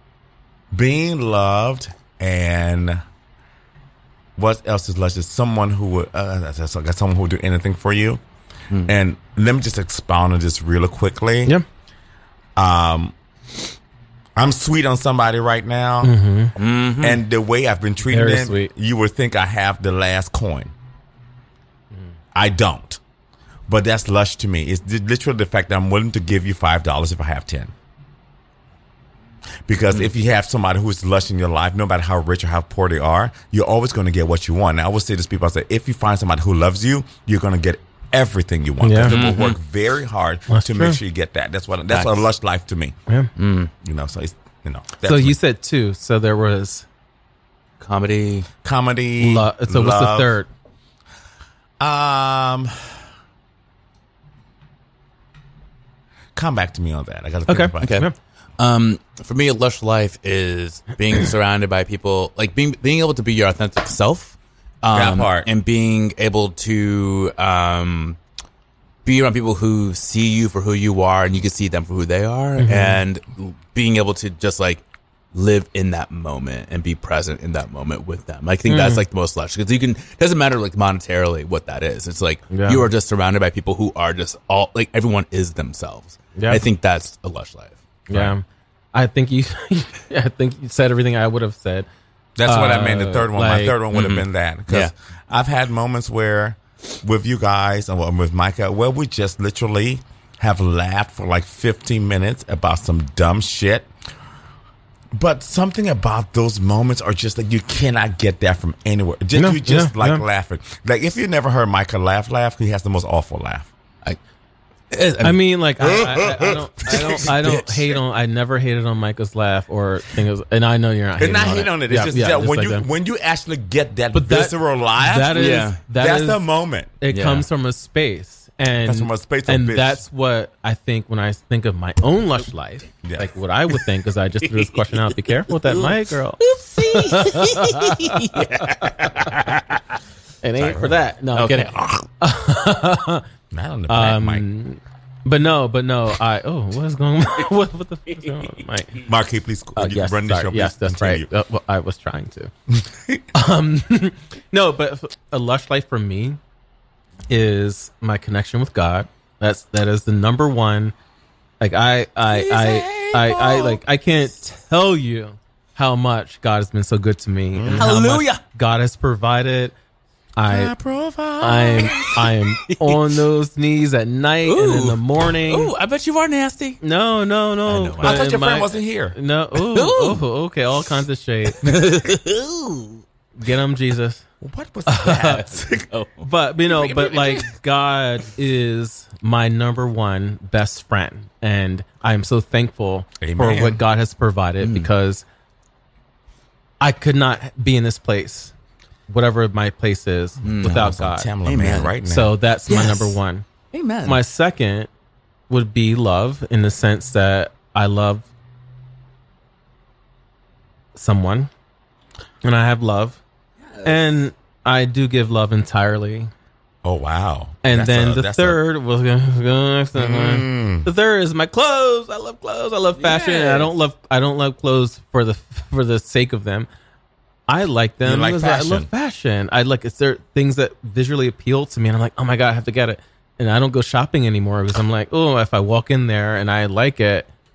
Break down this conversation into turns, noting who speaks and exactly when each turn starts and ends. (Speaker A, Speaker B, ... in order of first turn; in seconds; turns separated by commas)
Speaker A: 0.7-3.0, Speaker A: 4.4-8.2, Speaker A: 8.8-11.5, Speaker A: 12.6-13.1, Speaker A: 14.3-16.1, Speaker B: 16.0-16.5, Speaker C: 16.6-17.2, Speaker A: 17.0-20.7, Speaker B: 18.1-18.7, Speaker A: 22.3-23.0, Speaker A: 23.7-27.7, Speaker A: 29.7-43.0, Speaker B: 38.8-39.1, Speaker C: 39.1-39.6, Speaker B: 40.5-41.0, Speaker C: 41.9-42.2, Speaker C: 43.4-43.7, Speaker A: 43.8-45.4, Speaker B: 45.0-46.9, Speaker C: 47.8-48.5, Speaker A: 48.6-50.3, Speaker B: 49.2-50.5, Speaker A: 51.8-53.0, Speaker A: 56.3-58.0, Speaker B: 57.5-58.1, Speaker C: 57.8-58.0, Speaker C: 58.6-68.2, Speaker A: 64.9-65.5, Speaker C: 69.0-74.8, Speaker B: 72.6-73.0, Speaker C: 75.3-88.3, Speaker B: 78.7-79.0, Speaker B: 82.5-82.8, Speaker B: 86.4-86.6, Speaker B: 88.1-88.4, Speaker B: 88.9-91.9, Speaker A: 92.3-103.9, Speaker B: 92.5-93.8, Speaker C: 93.9-94.9, Speaker A: 105.1-113.7, Speaker B: 109.3-110.2, Speaker C: 114.9-115.4, Speaker B: 115.2-122.8, Speaker A: 115.8-117.3, Speaker C: 116.9-117.6, Speaker A: 121.2-126.9, Speaker B: 124.1-126.4, Speaker C: 125.3-125.8, Speaker B: 127.0-138.3, Speaker C: 127.1-127.4, Speaker A: 128.8-130.0, Speaker A: 133.0-133.3, Speaker C: 135.6-139.8, Speaker B: 140.4-143.2, Speaker C: 140.6-142.1, Speaker A: 143.5-144.4, Speaker B: 143.9-149.0, Speaker A: 149.1-151.3, Speaker B: 149.8-152.5, Speaker A: 152.7-153.2, Speaker B: 153.3-156.4, Speaker B: 157.3-160.9, Speaker B: 161.6-169.7, Speaker A: 162.3-163.8, Speaker A: 167.5-167.9, Speaker C: 167.8-168.4, Speaker B: 170.4-170.7, Speaker A: 170.5-172.2, Speaker B: 171.4-175.7, Speaker C: 174.4-176.8, Speaker B: 176.8-181.7, Speaker C: 177.7-178.2, Speaker A: 178.0-179.2, Speaker C: 179.6-180.2, Speaker C: 181.6-183.0, Speaker B: 183.4-184.2, Speaker A: 184.4-185.9, Speaker B: 184.8-185.4, Speaker C: 185.9-187.4, Speaker B: 186.2-195.2, Speaker A: 193.2-193.8, Speaker C: 194.6-194.9, Speaker B: 196.8-198.5, Speaker B: 199.1-201.3, Speaker C: 200.4-200.8, Speaker A: 200.6-202.3, Speaker C: 201.4-201.9, Speaker B: 202.0-203.4, Speaker C: 202.7-203.1, Speaker C: 203.7-204.2, Speaker B: 204.0-204.9, Speaker B: 205.5-208.3, Speaker B: 210.9-211.5, Speaker B: 212.4-213.2, Speaker C: 213.8-214.1, Speaker B: 213.8-216.3, Speaker A: 216.8-218.6, Speaker B: 217.6-226.7, Speaker A: 219.9-220.9, Speaker C: 223.0-223.7, Speaker B: 227.5-237.3, Speaker A: 228.0-228.9